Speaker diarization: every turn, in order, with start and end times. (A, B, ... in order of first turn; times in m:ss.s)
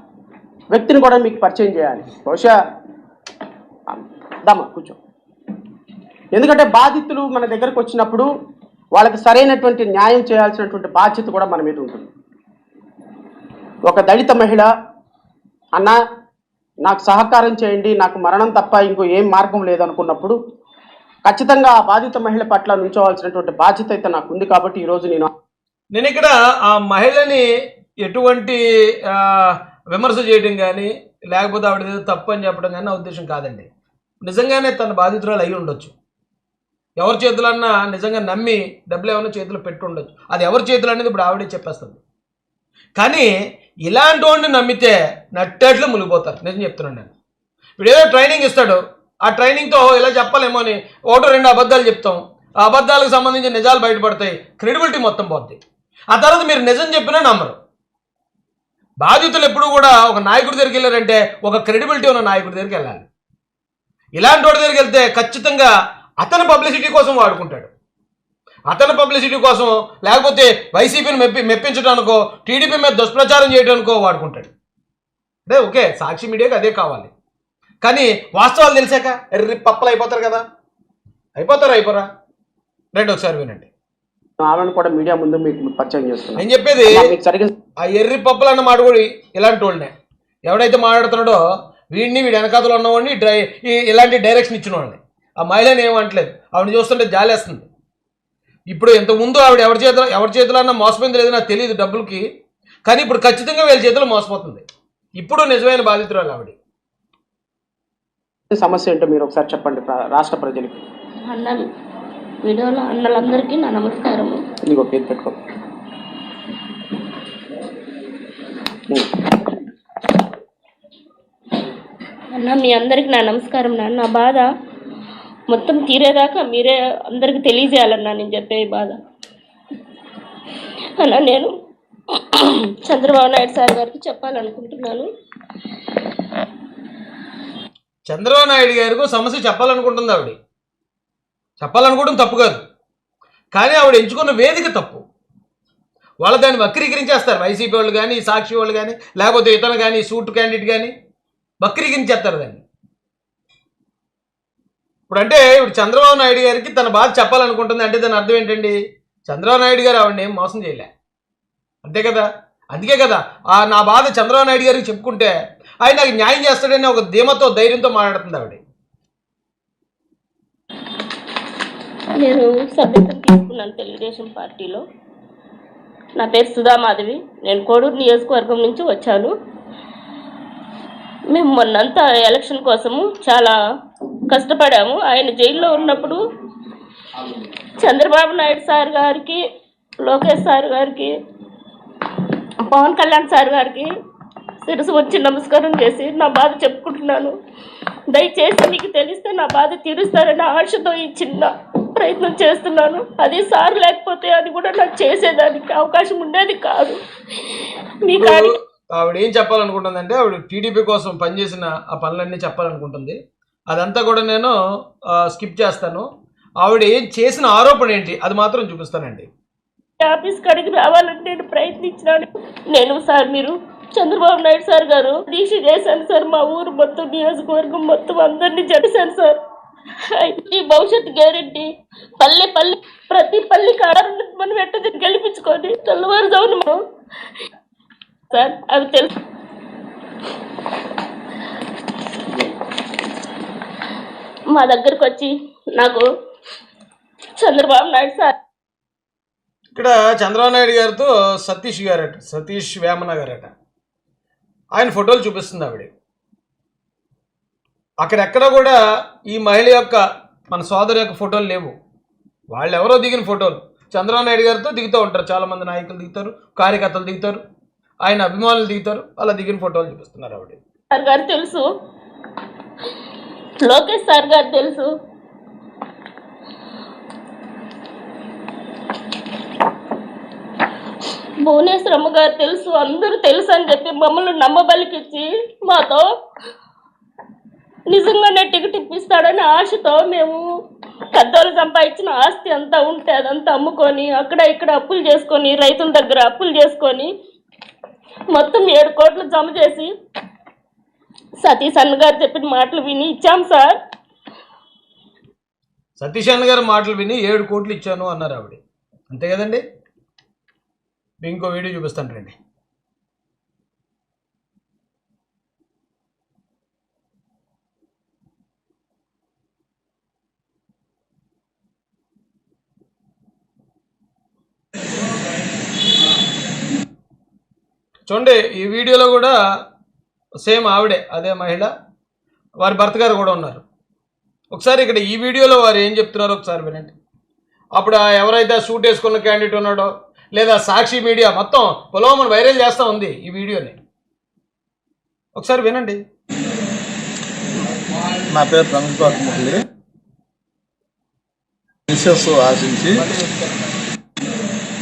0:00.7-0:02.6 A
0:03.9-0:05.0 A
0:06.3-0:08.3 A
0:08.9-0:12.1 A
0:13.8-0:14.7 A
0:16.8-0:20.4 A
0:21.2-0:25.3 A
0:25.9-0:27.5 B
0:28.0-0:33.7 B
0:34.2-0:35.9 B
0:37.0-0:42.0 B
0:43.0-0:43.3 B
0:43.9-0:47.1 B
0:47.8-0:55.6 B
0:56.1-0:57.6 B
0:59.0-1:03.1 B
1:04.2-1:07.7 B
1:08.7-1:14.5 B
1:15.5-1:17.1 B
1:17.8-1:20.4 B
1:21.4-1:22.1 B
1:22.9-1:23.7 B
1:24.4-1:27.5 A
1:26.4-1:27.1 B
1:27.8-1:29.9 B
1:30.5-1:31.4 B
1:31.9-1:37.7 B
1:38.7-1:42.2 B
1:42.9-1:44.6 B
1:45.2-1:46.6 B
1:48.5-1:50.8 A
1:51.3-1:51.7 C
1:52.4-1:54.4 C
1:54.7-1:55.4 A
2:02.3-2:04.5 C
2:05.5-2:09.0 C
2:11.0-2:11.5 C
2:12.1-2:15.1 C
2:18.1-2:20.4 B
2:21.6-2:22.6 B
2:23.5-2:25.0 B
2:26.2-2:30.9 B
2:31.6-2:32.6 B
2:35.1-2:40.9 B
2:41.8-2:48.6 B
2:52.2-2:54.8 C
2:56.2-2:59.3 C
3:01.3-3:03.6 C
3:04.3-3:06.2 C
3:07.8-3:09.4 C
3:10.0-3:11.1 C
3:12.6-3:13.9 C
3:14.6-3:17.4 C
3:18.1-3:27.0 C
3:28.0-3:28.5 C
3:28.1-3:33.2 B
3:33.7-3:34.5 B
3:35.1-3:36.1 B
3:36.6-3:39.3 B
3:40.0-3:49.4 C
3:50.2-3:51.7 C
3:52.2-3:56.8 C
3:58.3-3:59.1 C
4:04.5-4:06.0 C
4:07.4-4:08.3 C
4:09.8-4:13.5 B
4:14.8-4:15.9 B
4:18.0-4:18.8 B
4:19.3-4:21.7 B
4:22.5-4:27.4 B
4:28.0-4:30.6 B
4:30.9-4:31.6 C
4:33.6-4:34.9 C
4:41.4-4:46.1 C
4:47.9-4:50.4 C
4:51.2-4:57.1 C
4:58.3-4:59.9 C
5:01.4-5:03.8 C
5:06.0-5:09.6 B
5:11.2-5:12.4 B
5:28.1-5:29.4 B
5:30.4-5:31.7 B
5:32.6-5:33.6 B
5:34.5-5:37.0 B
5:37.8-5:43.8 B
5:45.4-5:46.0 B
5:48.3-5:49.6 D
5:51.9-5:53.0 D
5:53.0-5:53.5 B